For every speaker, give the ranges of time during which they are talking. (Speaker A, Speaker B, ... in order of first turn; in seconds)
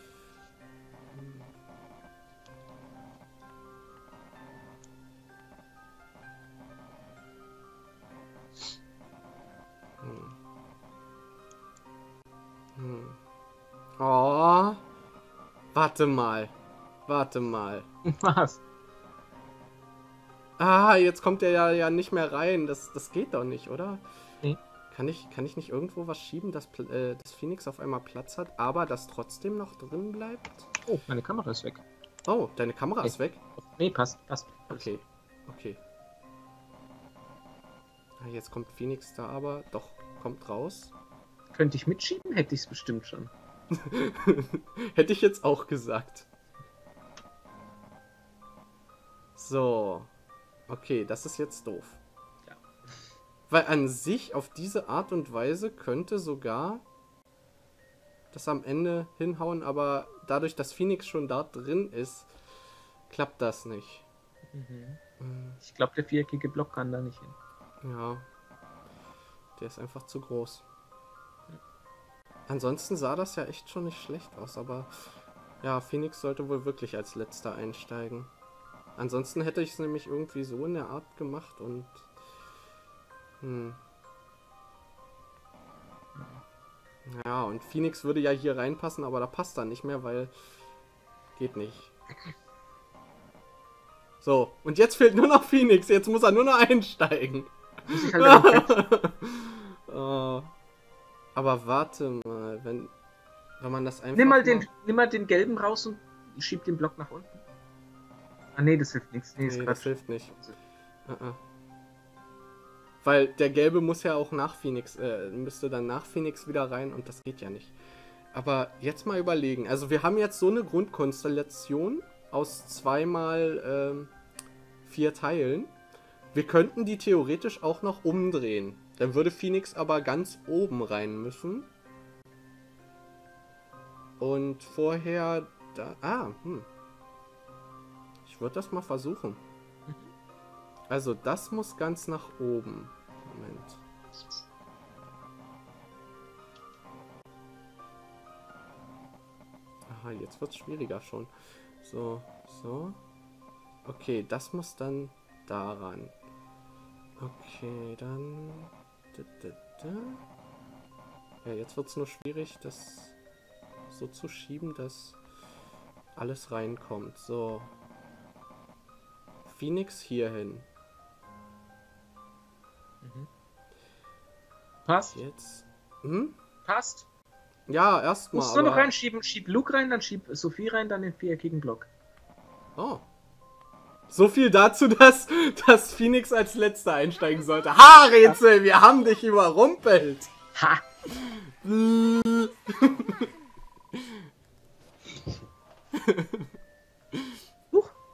Speaker A: 1.1-1.5, 10.0-10.3, 12.8-13.2, 14.0-14.8, 15.7-16.5, 17.1-17.9, 20.6-24.0, 24.9-30.7, 32.3-33.4, 34.7-35.8, 38.2-40.9, 43.9-46.3, 49.4-50.1, 50.7-52.0, 53.5-56.8, 58.3-62.3, 63.1-64.0, 65.2-65.6, 67.8-68.3, 69.6-70.6, 72.5-74.9, 75.6-78.3, 79.0-82.1, 83.4-83.8, 87.0-90.3, 91.3-91.9, 94.2-100.5, 101.3-102.9, 103.6-104.7, 109.4-110.4, 111.0-111.4, 113.0-117.7, 118.3-124.1, 124.8-125.7, 126.3-131.7, 134.2-136.7, 138.2-139.4, 140.9-143.8, 149.9-153.0, 153.8-156.1, 157.2-160.2, 161.4-163.2, 163.9-165.2, 166.1-167.7, 169.4-170.7, 175.1-176.4, 177.7-178.9, 182.8-183.0, 184.1-190.3, 191.1-193.2, 196.0-196.5
Speaker B: 18.1-18.6, 30.8-31.8, 33.0-34.9, 41.5-43.3, 52.5-53.0, 64.5-65.0, 65.6-67.3, 86.2-86.4, 97.9-98.8, 104.1-107.4, 108.5-110.5, 173.0-173.3, 174.8-175.2, 176.7-177.1, 178.3-181.9, 190.6-190.8